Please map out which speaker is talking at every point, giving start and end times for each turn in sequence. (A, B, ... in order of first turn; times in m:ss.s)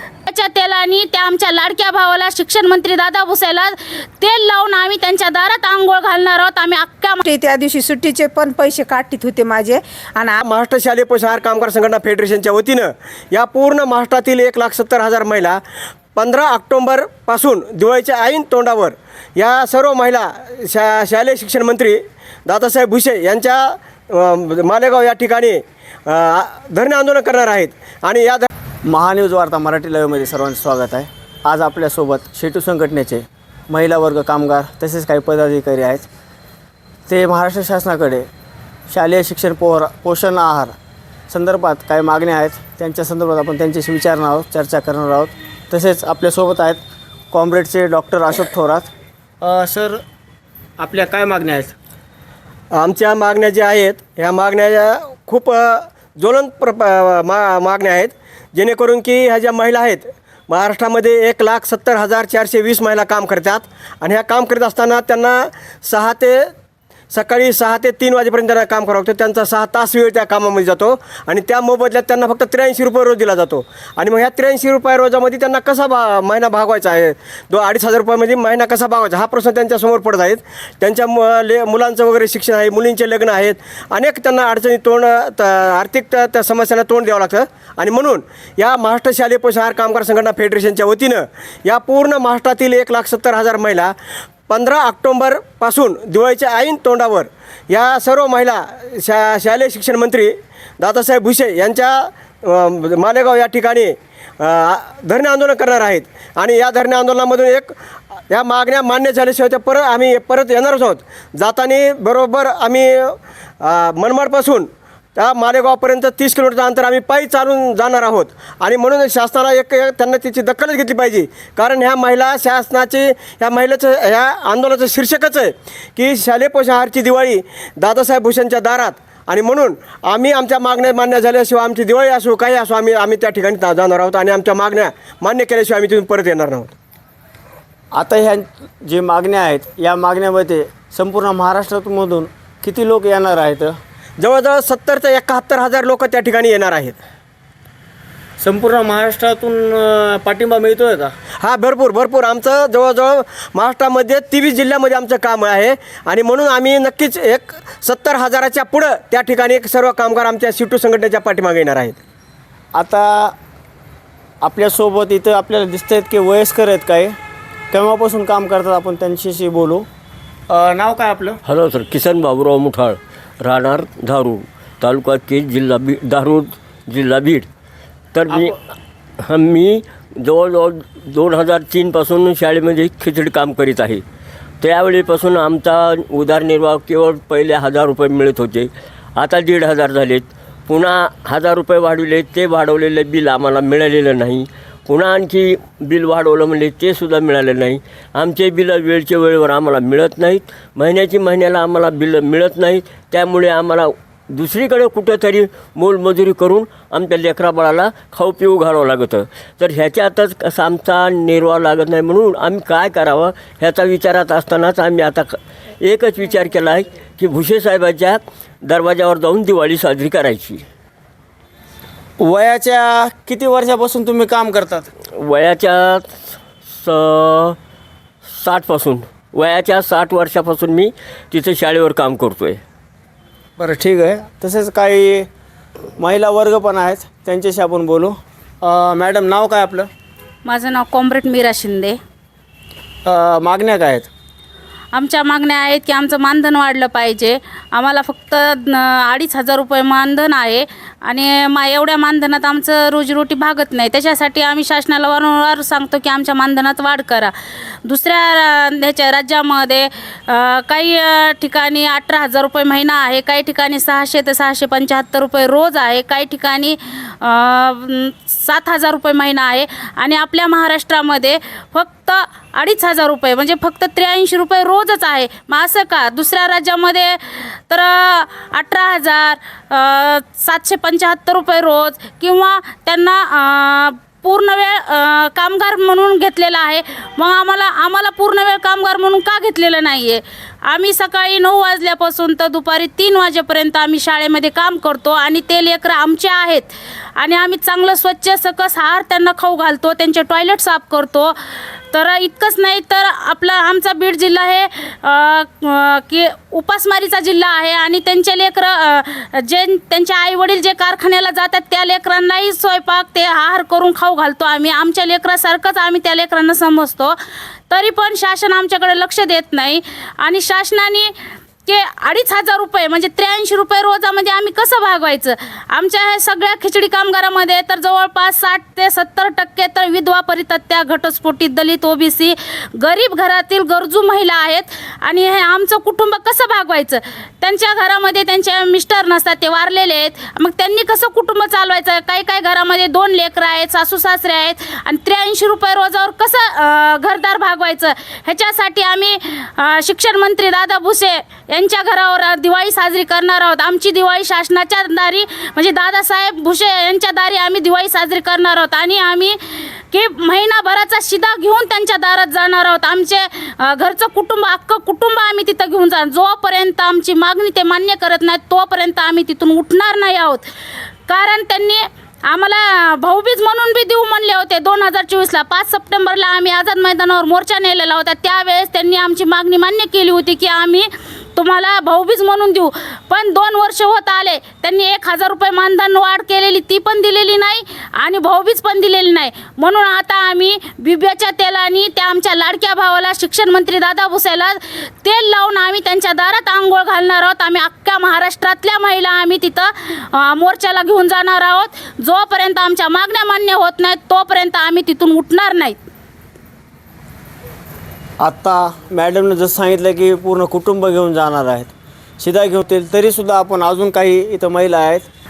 0:00.3-0:07.2 A
0:07.2-0:10.4 B
0:10.4-0:15.6 C
0:16.1-0:28.5 C
0:28.8-0:36.1 D
0:37.1-0:38.3 D
0:38.9-0:40.7 D
0:41.3-0:46.8 D
0:47.3-0:48.9 D
0:49.4-0:50.0 D
0:50.8-0:51.7 D
0:52.7-1:06.5 C
1:07.1-1:33.9 C
1:34.5-1:47.7 C
1:48.3-2:16.7 C
2:17.9-2:23.8 D
2:24.2-2:27.0 C
2:28.4-2:31.1 D
2:31.4-2:42.0 C
2:42.7-2:43.4 D
2:44.4-2:47.2 D
2:47.7-2:49.9 D
2:50.5-2:51.4 D
2:51.4-2:57.5 E
2:58.1-2:58.6 E
2:58.3-2:58.6 D
2:59.2-3:04.0 E
3:04.6-3:40.6 E
3:42.2-3:44.9 D
3:45.1-3:47.6 E
3:48.3-3:52.6 E
3:53.6-3:55.3 D
3:56.0-3:59.9 D
4:00.4-4:02.0 A
4:03.0-4:04.1 D
4:04.9-4:17.3 A
4:17.8-5:01.3 A
5:01.9-5:17.2 A
5:17.7-5:21.1 A
5:21.6-6:10.4 A
6:11.1-6:45.8 A
6:48.2-6:55.1 D